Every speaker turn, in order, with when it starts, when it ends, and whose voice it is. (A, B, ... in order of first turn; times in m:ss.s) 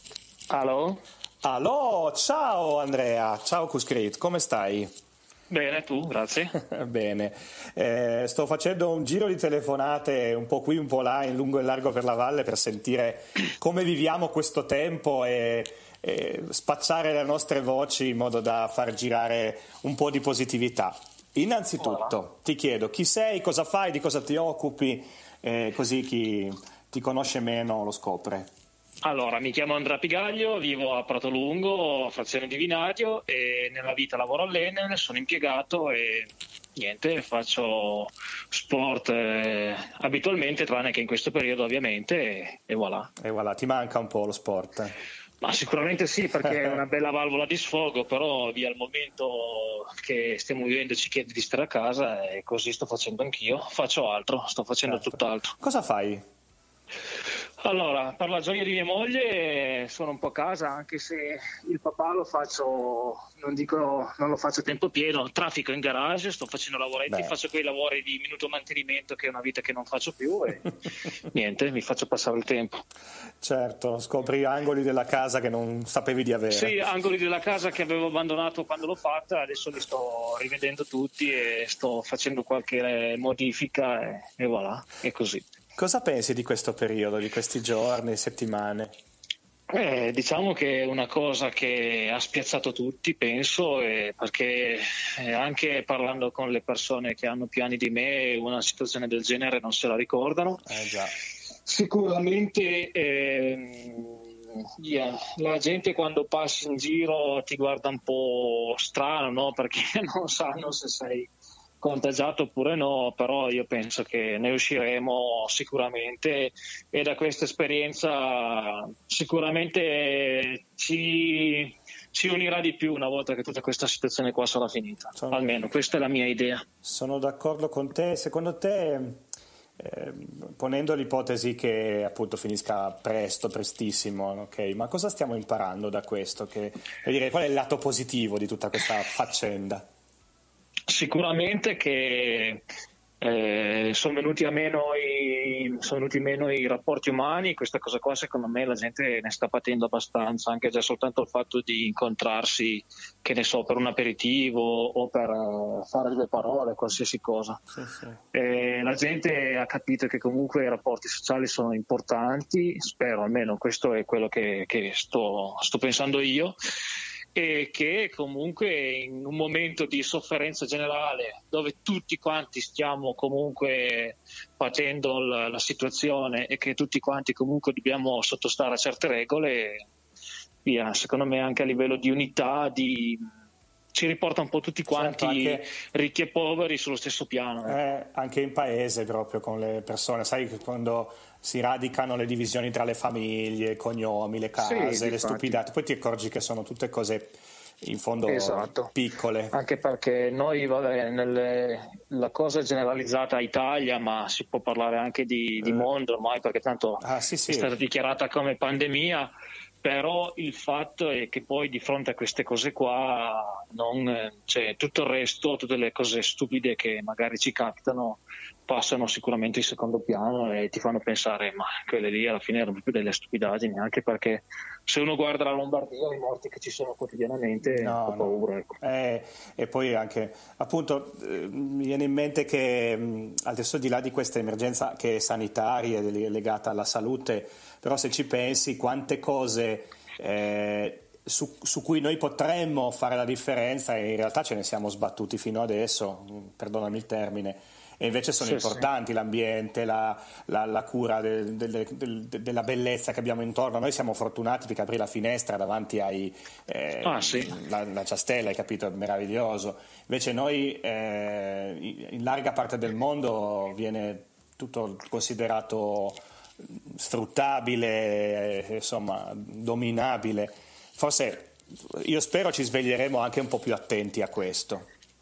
0:00.5-0:01.0 A
0:01.4-0:04.9 B
0:05.5-0:06.5 A
0:06.6-0:28.5 B
0:21.8-0:22.1 A
0:29.0-0:43.1 A
0:43.2-0:44.9 B
0:45.4-0:55.5 A
0:54.8-0:56.2 B
0:57.6-1:12.8 A
1:07.1-1:07.3 B
1:13.4-1:16.8 B
1:16.5-1:25.4 A
1:25.8-1:28.9 B
1:29.7-1:40.7 A
1:40.6-1:41.1 B
1:41.6-1:51.3 A
1:51.8-2:06.6 A
2:05.2-2:05.4 B
2:06.8-2:09.2 B
2:09.8-2:19.8 B
2:20.9-2:22.6 A
2:23.2-2:37.6 A
2:37.7-2:38.2 B
2:38.3-2:46.5 A
2:47.3-2:59.8 A
3:00.6-3:03.2 A
3:03.9-3:07.8 A
3:04.9-3:05.6 B
3:07.6-3:19.5 B
3:14.6-3:15.6 A
3:18.3-3:18.9 A
3:19.5-3:29.3 A
3:27.0-3:27.7 B
3:29.8-3:48.8 A
3:47.6-4:34.9 B
4:08.4-4:08.8 A
4:17.0-4:17.5 A